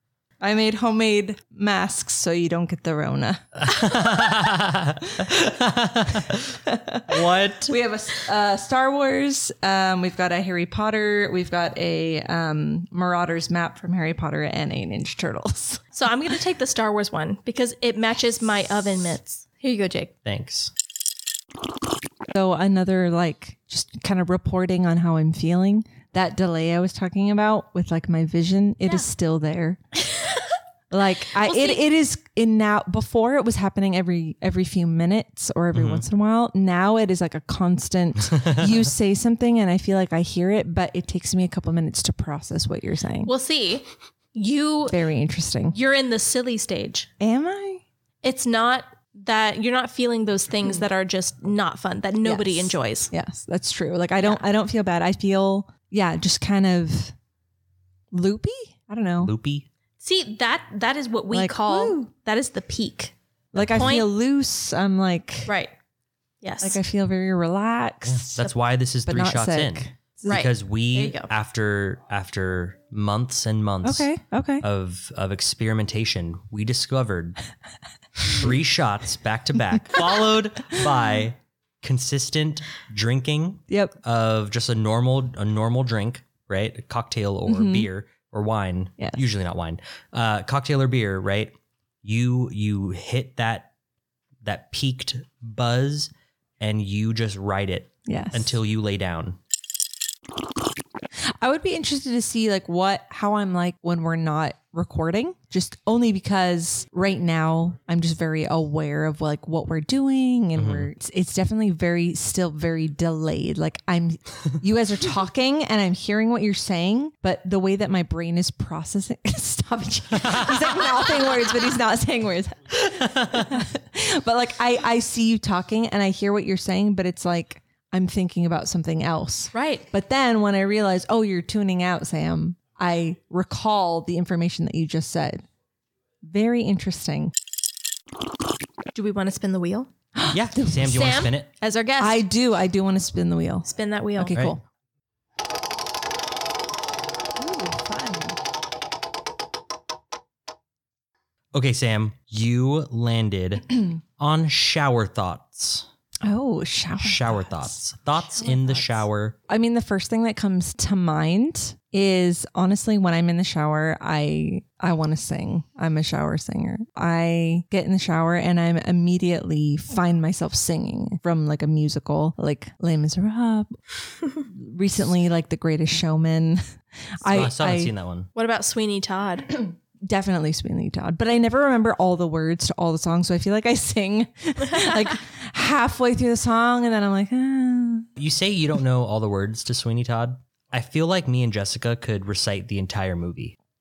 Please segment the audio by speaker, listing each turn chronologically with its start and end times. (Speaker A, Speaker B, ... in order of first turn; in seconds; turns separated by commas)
Speaker A: 0.4-4.0, Speaker B: 3.5-8.2, Speaker A: 6.7-15.8, Speaker C: 15.9-20.1, Speaker B: 20.2-20.7, Speaker A: 22.3-29.8, Speaker A: 30.9-43.3, Speaker C: 31.4-31.8, Speaker B: 35.7-36.0, Speaker C: 43.2-45.0, Speaker A: 44.9-45.8, Speaker C: 45.7-47.1, Speaker A: 47.2-47.8, Speaker C: 48.2-53.1, Speaker A: 52.2-57.1, Speaker A: 58.1-59.3, Speaker B: 59.2-59.7, Speaker C: 60.0-63.1, Speaker A: 61.3-62.0, Speaker A: 63.5-65.5, Speaker B: 63.5-64.0, Speaker C: 63.8-64.1, Speaker C: 65.5-65.7, Speaker C: 66.4-66.8, Speaker A: 66.6-68.4, Speaker B: 68.0-74.1, Speaker A: 69.0-70.4, Speaker C: 70.2-71.3, Speaker A: 73.8-74.6, Speaker B: 74.6-77.4, Speaker B: 78.2-93.7, Speaker A: 83.7-83.9, Speaker A: 87.5-87.9, Speaker B: 94.4-99.4, Speaker A: 98.0-98.5, Speaker A: 101.4-135.4, Speaker B: 110.5-110.9, Speaker B: 120.1-120.5, Speaker B: 122.8-123.5, Speaker C: 129.5-129.8, Speaker A: 136.2-137.3, Speaker C: 138.9-139.9, Speaker A: 140.1-141.0, Speaker B: 140.3-141.5, Speaker C: 140.8-142.2, Speaker A: 142.0-144.6, Speaker C: 143.7-144.3, Speaker A: 147.3-148.4, Speaker B: 151.5-155.9, Speaker A: 156.2-157.7, Speaker B: 157.0-159.3, Speaker A: 158.4-158.9, Speaker A: 159.5-173.8, Speaker A: 174.4-176.6, Speaker A: 177.2-177.9, Speaker B: 177.2-178.3, Speaker C: 178.3-179.5, Speaker A: 179.5-188.1, Speaker B: 188.2-193.6